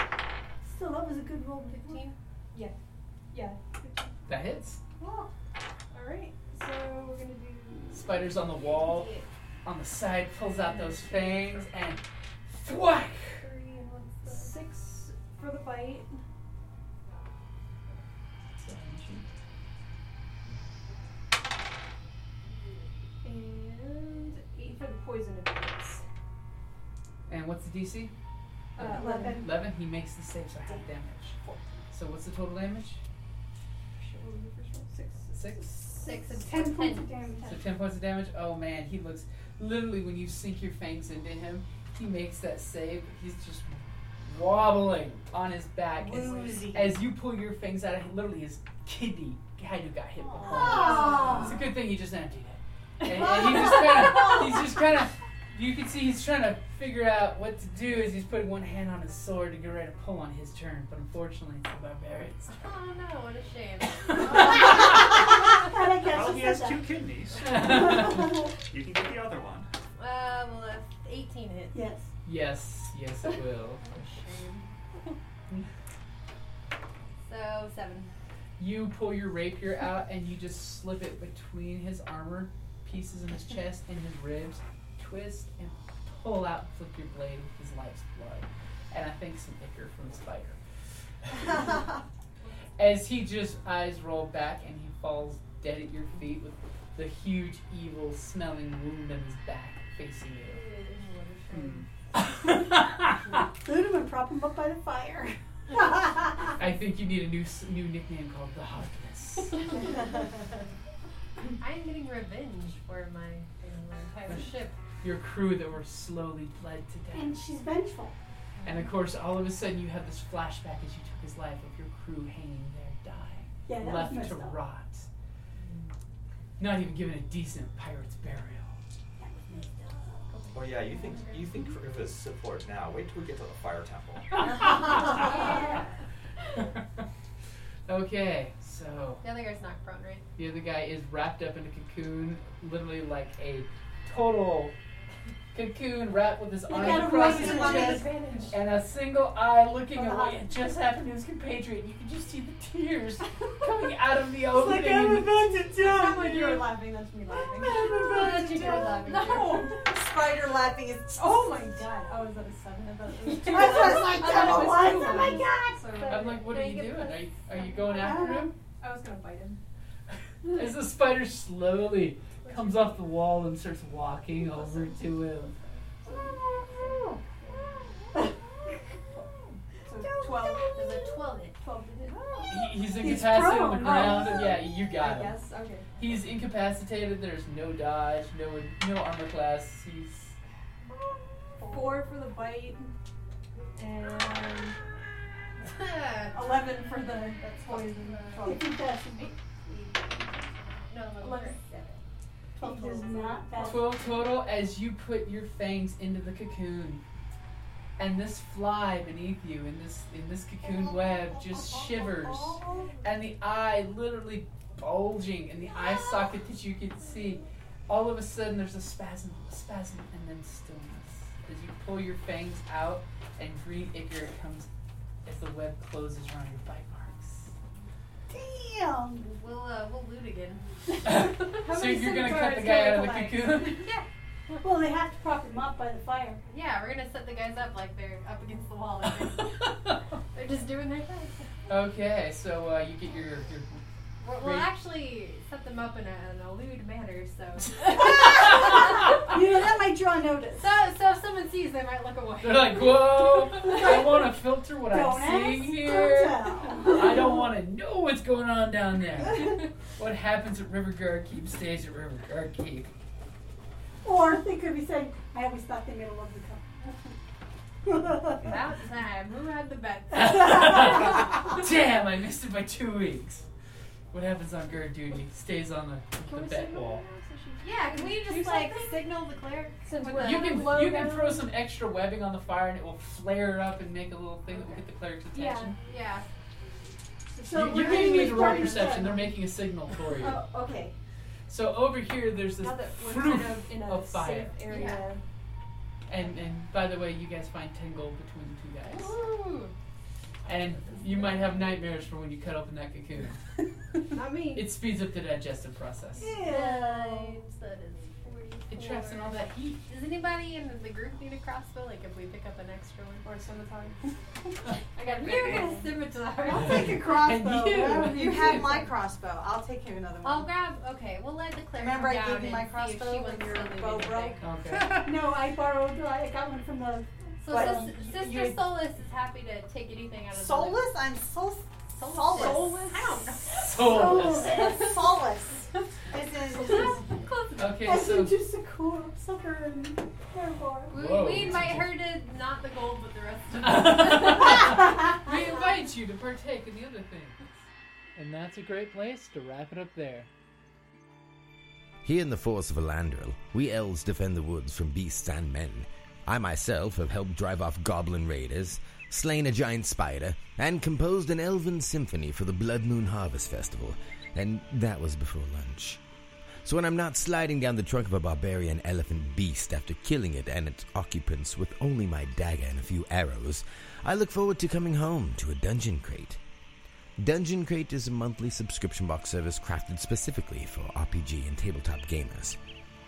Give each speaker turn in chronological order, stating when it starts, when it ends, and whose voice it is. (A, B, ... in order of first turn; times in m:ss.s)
0:00.6-0:02.0 A
0:01.7-0:02.2 B
0:03.3-0:04.3 C
0:04.3-0:04.8 D
0:05.9-0:08.6 C
0:07.9-0:13.4 D
0:08.6-0:09.3 B
0:10.7-0:11.4 C
0:13.4-0:16.2 C
0:13.9-0:14.5 B
0:18.6-0:19.2 D
0:23.2-0:26.0 C
0:27.3-0:28.1 D
0:28.8-0:29.5 C
0:28.8-0:29.6 A
0:28.9-0:31.4 D
0:31.9-0:33.0 D
0:34.0-0:36.0 C
0:35.3-0:35.8 D
0:36.0-0:37.3 B
0:36.4-0:37.6 A
0:37.5-1:02.5 D
0:46.0-0:47.0 E
0:50.4-0:51.2 E
0:50.6-0:51.5 A
1:02.5-1:05.0 B
1:04.1-1:04.7 D
1:04.6-1:06.9 A
1:06.0-1:09.7 F
1:07.4-1:08.3 D
1:07.6-1:08.4 A
1:10.0-1:11.8 B
1:11.7-1:12.1 A
1:12.2-1:14.0 D
1:13.9-1:14.6 C
1:17.2-1:18.1 B
1:18.6-1:30.6 D
1:31.2-1:31.9 D
1:32.8-1:40.6 D
1:40.5-1:41.8 C
1:40.9-1:41.8 B
1:42.1-1:43.2 D
1:43.6-1:46.1 A
1:46.6-1:49.7 D
1:51.6-1:54.8 B
1:54.3-1:57.4 D
1:57.1-1:58.1 A
1:58.6-2:05.1 D
2:03.7-2:04.6 A
2:06.6-2:08.8 D
2:09.2-2:09.6 A
2:09.4-2:11.6 B
2:10.5-2:14.9 G
2:14.8-2:15.4 D
2:15.2-2:15.8 B
2:16.6-2:17.0 D
2:17.9-2:19.2 D
2:19.2-2:20.2 B
2:20.4-2:24.8 D
2:25.5-2:35.5 D
2:26.7-2:28.0 A
2:26.7-2:28.6 C
2:27.2-2:28.0 E
2:30.0-2:30.3 A
2:34.7-2:36.7 E
2:35.5-2:39.9 C
2:37.7-2:41.7 E
2:38.2-2:39.5 B
2:38.3-2:39.0 A
2:41.1-2:46.4 C
2:43.5-2:45.6 A
2:43.5-2:45.3 E
2:43.6-2:48.1 B
2:46.1-2:48.5 D
2:47.9-2:49.6 C
2:50.4-2:55.5 D
2:54.3-2:58.1 C
2:56.1-2:57.2 A
2:59.8-3:01.0 C
3:00.3-3:01.1 A
3:00.7-3:01.6 B
3:01.6-3:02.9 C
3:02.5-3:05.4 D
3:03.0-3:04.7 A
3:03.8-3:06.0 C
3:06.0-3:10.4 D
3:11.6-3:12.9 C
3:11.7-3:12.0 B
3:13.8-3:14.8 C
3:15.6-3:16.8 B
3:16.3-3:19.3 C
3:17.4-3:18.5 B
3:18.4-3:19.4 A
3:20.3-3:22.0 B
3:21.2-3:22.0 C
3:22.6-3:23.9 A
3:22.6-3:23.6 B
3:23.6-3:27.0 D
3:28.0-3:44.7 D
3:30.8-3:31.1 A
3:31.6-3:32.8 A
3:45.2-3:47.5 D
3:48.3-3:49.2 A
3:49.2-3:50.7 B
3:51.0-3:53.9 D
3:51.4-3:53.9 C
3:53.8-3:54.6 B
3:54.6-3:56.4 A
3:56.4-4:01.5 B
4:01.7-4:04.7 D
4:04.2-4:08.8 B
4:07.9-4:08.8 D
4:07.9-4:10.7 A
4:10.6-4:14.0 B
4:12.4-4:22.9 D
4:14.9-4:17.5 A
4:24.0-4:26.9 A
4:27.8-4:28.5 A
4:28.4-4:31.2 B
4:30.1-4:33.4 D
4:34.1-4:37.0 D
4:36.2-4:39.1 C
4:37.6-4:40.7 B
4:39.8-4:41.5 C
4:40.1-4:45.8 D
4:45.3-4:45.7 C
4:45.7-4:46.3 B
4:47.4-4:49.3 A
4:47.5-4:50.4 D
4:47.8-4:48.1 C
4:50.2-4:50.9 E
4:51.5-4:54.8 D
4:52.6-4:55.2 C
4:54.7-4:55.1 B
4:56.1-4:59.1 D
4:58.8-4:59.7 B
5:00.4-5:06.3 D
5:04.1-5:04.7 B
5:06.2-5:13.3 B
5:06.2-5:07.4 A
5:08.7-5:09.8 D
5:13.2-5:14.0 C
5:14.9-5:16.0 C
5:15.0-5:16.8 B
5:16.4-5:20.5 E
5:16.6-5:18.9 D
5:17.4-5:17.8 A
5:20.2-5:24.4 B
5:21.8-5:24.4 E
5:24.4-5:25.0 D
5:24.8-5:27.9 A
5:27.4-5:30.9 B
5:27.5-5:27.8 E
5:28.0-5:28.6 D
5:30.3-5:32.8 E
5:31.9-5:35.2 B
5:32.3-5:33.1 C
5:33.5-5:34.5 D
5:33.8-5:34.7 A
5:33.8-5:37.0 E
5:36.5-5:37.7 B
5:37.6-5:38.3 D
5:37.8-5:41.0 A
5:40.9-5:44.7 B
5:40.9-5:42.0 D
5:43.6-5:47.5 D
5:48.2-5:50.3 D
5:52.0-6:06.0 H
6:06.6-6:16.4 H
6:17.2-6:22.6 H